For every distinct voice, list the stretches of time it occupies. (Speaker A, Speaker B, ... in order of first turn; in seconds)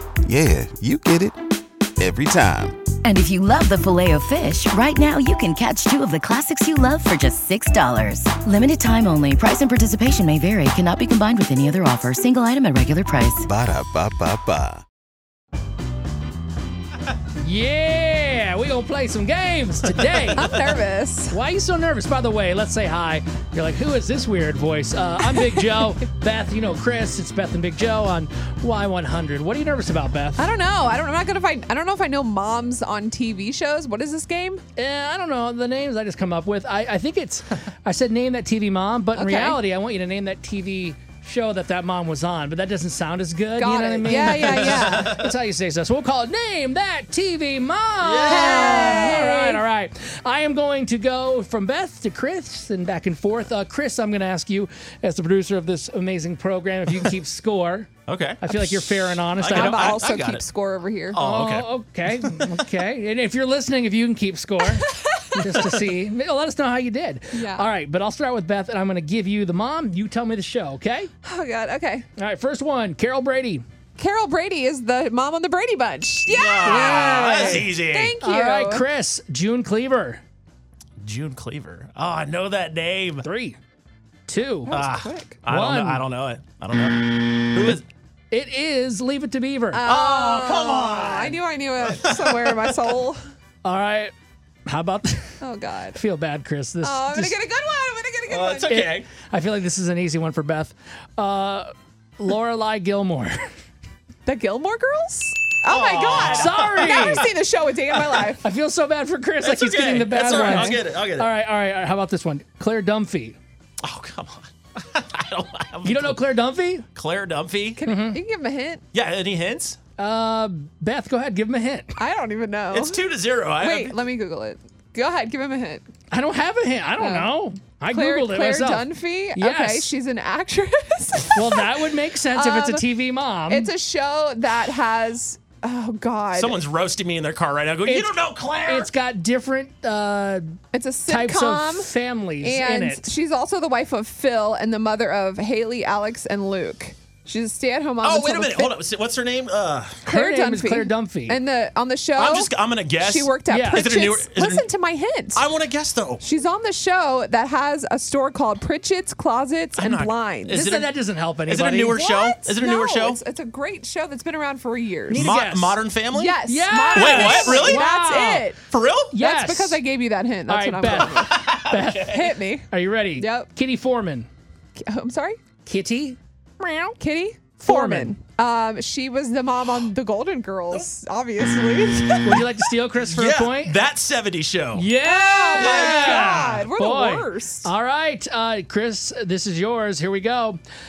Speaker A: 0.2-1.4, 2.0-2.8, 13.4-14.8
Speaker B: 3.0-13.5
Speaker C: 17.4-20.5, 21.3-30.5, 34.8-57.9, 58.4-60.0, 61.2-71.1, 72.2-73.6, 77.3-77.7, 78.2-80.2, 83.2-83.6, 84.3-84.8, 85.5-86.0, 88.3-89.9, 93.6-94.1, 94.7-95.4, 95.9-97.4, 98.7-103.4, 106.2-107.2, 108.4-113.4, 115.8-116.9, 117.9-118.2, 120.0-121.9, 126.1-129.9, 131.3-133.7, 137.8-143.1, 150.1-151.4, 153.5-153.9, 160.5-162.0, 165.1-165.8, 166.4-168.5, 169.1-169.8, 170.5-172.2, 172.7-174.3, 175.7-177.0, 177.6-178.1, 182.2-183.8, 184.7-190.6
Speaker D: 20.3-21.4, 25.4-25.7, 30.4-34.6, 39.1-39.6, 43.6-45.1, 48.3-49.6, 59.5-61.2, 64.7-65.4, 67.3-67.7, 71.2-72.1, 74.0-78.9, 84.7-85.4, 89.7-93.2, 95.4-96.0, 96.8-98.9, 104.3-108.4, 117.8-118.8, 122.0-123.0, 123.6-125.9, 127.0-127.3, 127.9-132.8, 133.5-136.6, 140.7-148.8, 150.1-155.5, 156.2-160.6, 161.9-165.3, 166.1-168.6, 169.2-171.4, 172.1-173.5, 174.8-175.4, 177.0-182.6, 185.0-187.7
Speaker E: 44.3-45.2, 48.0-49.1, 58.1-60.4, 61.1-62.6, 76.3-78.2, 81.0-83.2, 84.7-87.8, 89.9-92.8, 98.3-99.1, 105.7-107.2, 107.9-108.2, 109.4-111.3, 113.8-116.3, 117.0-117.8, 118.9-119.8, 122.7-124.0, 136.3-138.9, 148.0-150.1, 152.2-154.7, 155.3-156.2, 159.8-163.2, 165.1-167.9, 168.7-169.2, 170.9-172.3, 183.0-184.9, 185.6-186.6